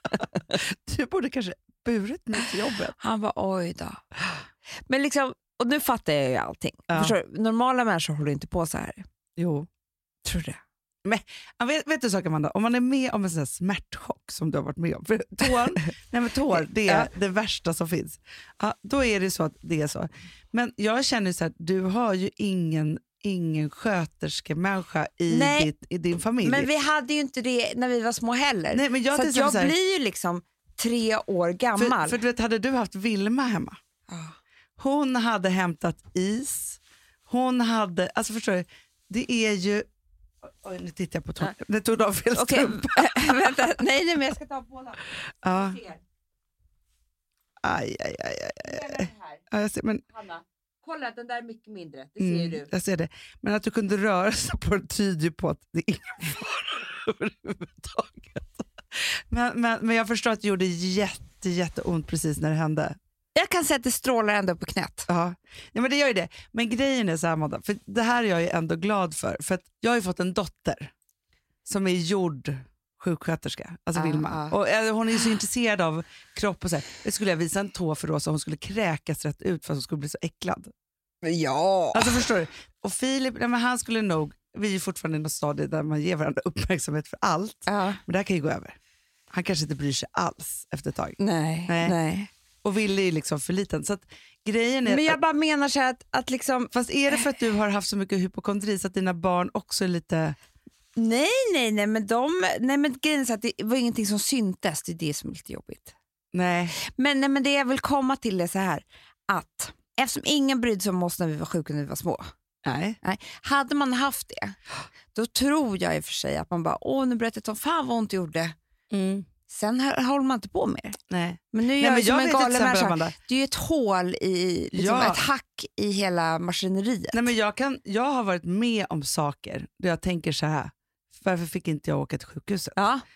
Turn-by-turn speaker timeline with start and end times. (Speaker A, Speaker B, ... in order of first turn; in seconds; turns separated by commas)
Speaker A: 0.5-3.0, Speaker B: 2.9-4.0, Speaker B: 4.9-9.0, Speaker A: 6.9-7.2, Speaker A: 9.4-9.7, Speaker B: 10.2-10.6, Speaker A: 11.1-26.7, Speaker B: 16.5-17.1, Speaker B: 25.3-25.7, Speaker B: 26.4-32.2, Speaker A: 28.7-29.8, Speaker A: 31.8-33.8, Speaker B: 34.1-34.4, Speaker A: 34.8-39.9, Speaker A: 40.6-43.4, Speaker B: 42.4-46.0, Speaker A: 45.4-45.8, Speaker A: 47.6-50.0, Speaker B: 48.6-49.5, Speaker B: 50.1-52.7, Speaker A: 52.2-63.0, Speaker B: 63.4-65.1, Speaker A: 65.1-70.9, Speaker A: 71.7-80.7, Speaker B: 74.0-74.5, Speaker B: 81.2-82.2, Speaker A: 81.9-88.8, Speaker B: 87.7-88.0, Speaker A: 89.3-91.2, Speaker B: 91.2-92.3, Speaker A: 91.7-92.0, Speaker A: 92.6-95.2, Speaker B: 94.8-97.2, Speaker A: 96.7-100.4, Speaker B: 101.0-106.0, Speaker A: 106.3-106.8, Speaker B: 106.8-112.2, Speaker A: 112.6-113.0, Speaker B: 113.0-114.6, Speaker B: 115.1-118.5, Speaker A: 118.9-119.3, Speaker B: 119.5-121.0, Speaker A: 121.1-123.2, Speaker B: 121.5-127.3, Speaker A: 124.7-125.2, Speaker A: 127.1-132.8, Speaker B: 132.8-133.0